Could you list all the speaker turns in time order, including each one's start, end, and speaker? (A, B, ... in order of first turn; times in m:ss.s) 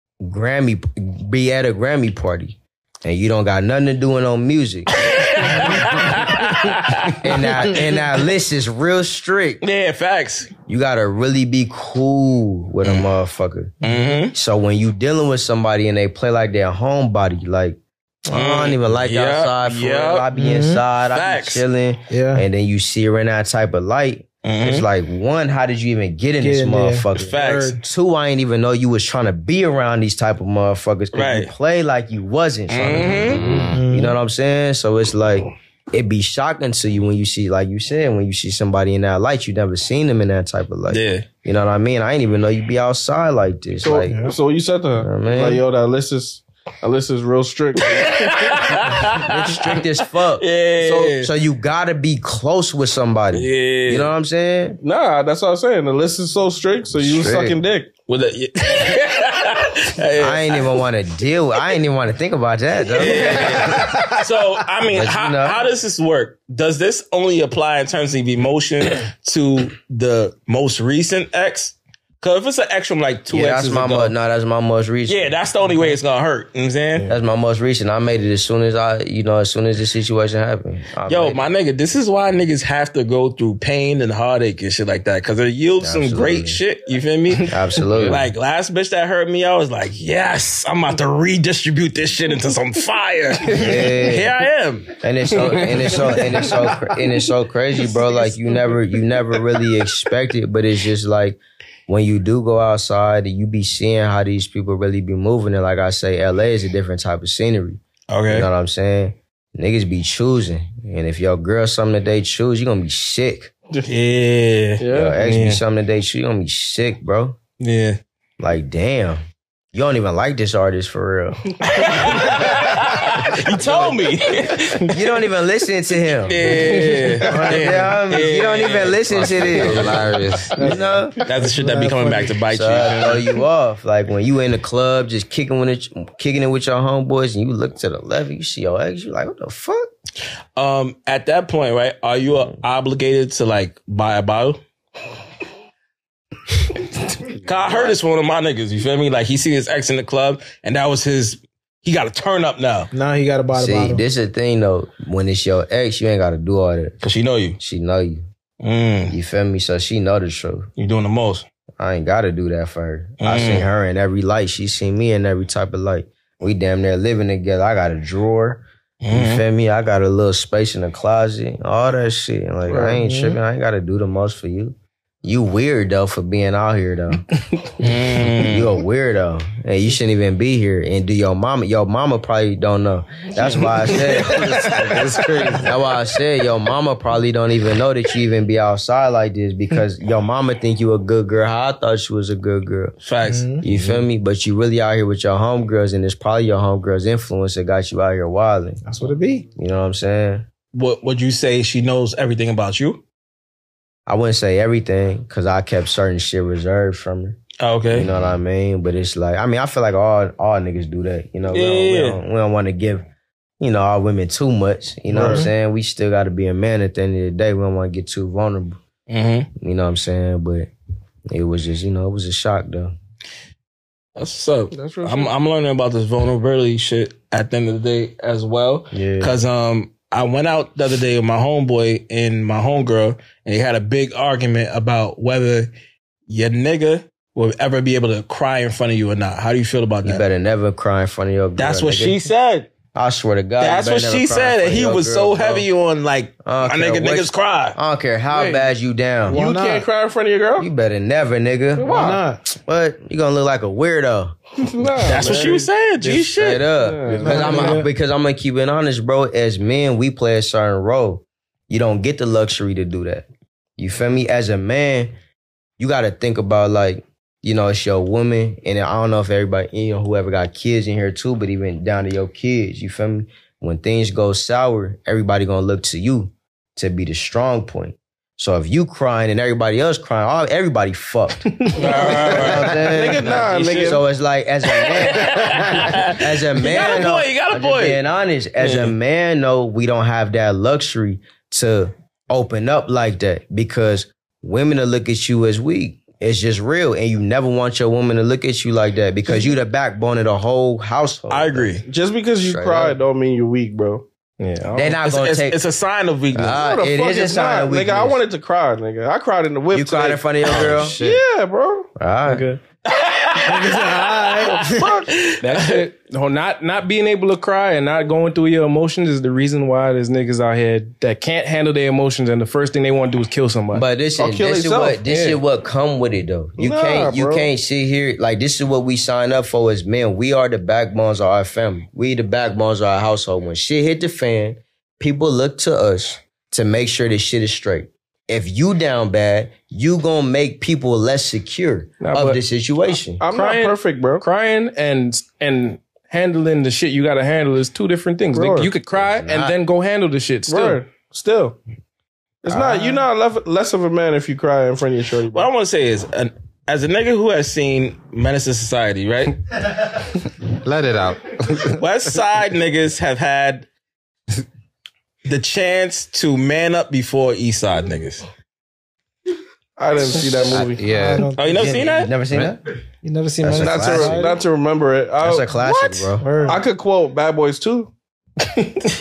0:00.2-0:06.1 A
0:04.9-0:07.8 B
0:07.1-0:09.6 A
0:09.6-0:10.5 B
0:10.7-0:13.8 A
0:13.8-0:14.3 B
0:13.8-0:14.2 C
0:14.3-0:44.2 A
0:18.3-0:20.3 B
0:20.3-0:20.8 C
0:21.1-0:21.6 B
0:22.1-0:22.4 C
0:24.4-0:24.9 B
0:26.4-0:27.8 C
0:27.2-0:27.8 B
0:31.1-0:31.5 B
0:32.7-0:33.5 B
0:33.3-0:33.8 D
0:33.7-0:34.2 C
0:40.9-0:41.3 B
0:43.8-0:48.7 E
0:45.0-0:45.6 A
0:47.8-0:51.3 B
0:49.2-0:50.5 A
0:50.8-0:51.1 E
0:51.1-0:54.8 A
0:53.3-0:54.1 B
0:54.8-0:57.9 E
0:57.0-0:57.6 A
0:58.1-1:00.8 B
1:00.2-1:04.1 A
1:02.9-1:14.1 B
1:04.9-1:05.6 A
1:13.3-1:15.4 A
1:15.1-1:17.1 B
1:17.1-1:21.4 A
1:21.1-1:36.0 B
1:25.8-1:26.6 A
1:27.4-1:28.3 A
1:33.5-1:34.4 A
1:35.0-1:53.5 A
1:48.1-1:48.5 B
1:53.8-1:55.6 B
1:54.8-1:55.2 E
1:54.9-1:57.4 A
1:57.6-1:58.0 B
1:58.4-1:59.2 A
1:59.7-2:02.7 A
2:01.6-2:05.0 B
2:04.8-2:11.2 A
2:06.2-2:09.8 B
2:06.7-2:07.0 F
2:07.3-2:07.7 C
2:09.1-2:10.6 D
2:10.6-2:12.4 C
2:11.2-2:13.3 B
2:12.5-2:19.9 A
2:20.6-2:24.6 B
2:27.4-2:32.9 B
2:32.9-2:34.0 C
2:33.5-2:37.0 A
2:37.0-2:37.6 B
2:37.6-2:38.2 A
2:38.6-2:39.2 B
2:39.1-2:40.7 A
2:40.8-2:41.4 B
2:41.8-2:57.4 A
2:43.2-2:43.7 B
2:49.0-2:49.4 B
2:53.0-2:53.4 C
2:57.8-2:58.8 B
2:58.2-3:04.9 A
3:04.2-3:05.7 D
3:05.6-3:12.9 A
3:13.0-3:13.6 B
3:13.2-3:13.6 C
3:13.6-3:18.8 A
3:18.8-3:19.4 C
3:19.6-3:20.4 A
3:20.7-3:23.0 B
3:24.1-3:27.4 A
3:27.6-3:28.1 B
3:27.9-3:33.1 A
3:31.5-3:32.2 B
3:33.6-3:38.8 A
3:35.1-3:35.5 C
3:35.2-3:35.5 E
3:39.1-3:39.5 B
3:39.6-3:40.7 A
3:41.3-3:42.9 A
3:44.2-3:55.7 B
3:44.7-3:45.3 E
3:48.9-3:49.4 A
3:56.3-4:00.2 B
4:00.0-4:02.2 A
4:01.6-4:02.7 B
4:02.9-4:05.7 A
4:03.6-4:07.8 B
4:06.4-4:09.4 A
4:08.3-4:08.6 F
4:09.3-4:09.8 C
4:09.3-4:10.7 E
4:10.6-4:15.2 A
4:11.8-4:12.2 E
4:11.8-4:12.4 C
4:14.6-4:17.7 E
4:15.0-4:16.7 B
4:16.2-4:25.1 A
4:17.1-4:17.8 F
4:17.2-4:17.9 C
4:25.8-5:01.8 A
4:41.7-4:43.9 B
4:42.7-4:44.0 E
4:44.7-4:48.0 B
4:48.6-4:48.9 B
5:01.3-5:01.8 B
5:01.8-5:04.0 E
5:02.4-5:03.0 A
5:04.4-5:05.0 F
5:04.7-5:05.6 A
5:05.0-5:06.6 B
5:06.3-5:08.2 A
5:06.5-5:10.3 E
5:09.7-5:11.0 A
5:10.4-5:11.2 D
5:10.9-5:11.9 E
5:12.0-5:12.4 A
5:12.3-5:12.6 F
5:12.8-5:15.8 B
5:13.4-5:15.0 C
5:15.4-5:23.8 F
5:23.7-5:43.2 A
5:24.2-5:25.0 E
5:25.0-5:25.4 F
5:26.6-5:27.5 E
5:42.0-5:42.4 F
5:43.2-5:44.2 E
5:43.3-5:50.8 F
5:48.3-5:48.7 E
5:49.0-5:49.6 A
5:50.5-5:51.6 E
5:52.4-5:55.5 E
5:55.3-5:59.4 B
6:00.4-6:01.8 D
6:01.7-6:03.7 B
6:05.2-6:08.2 B
6:09.8-6:10.8 E
6:10.5-6:11.3 D
6:10.8-6:11.7 C
6:11.4-6:12.1 B
6:11.4-6:12.6 A
6:13.0-6:14.4 C
6:13.4-6:14.2 A
6:13.5-6:17.9 E
6:15.2-6:16.4 A
6:16.2-6:16.6 C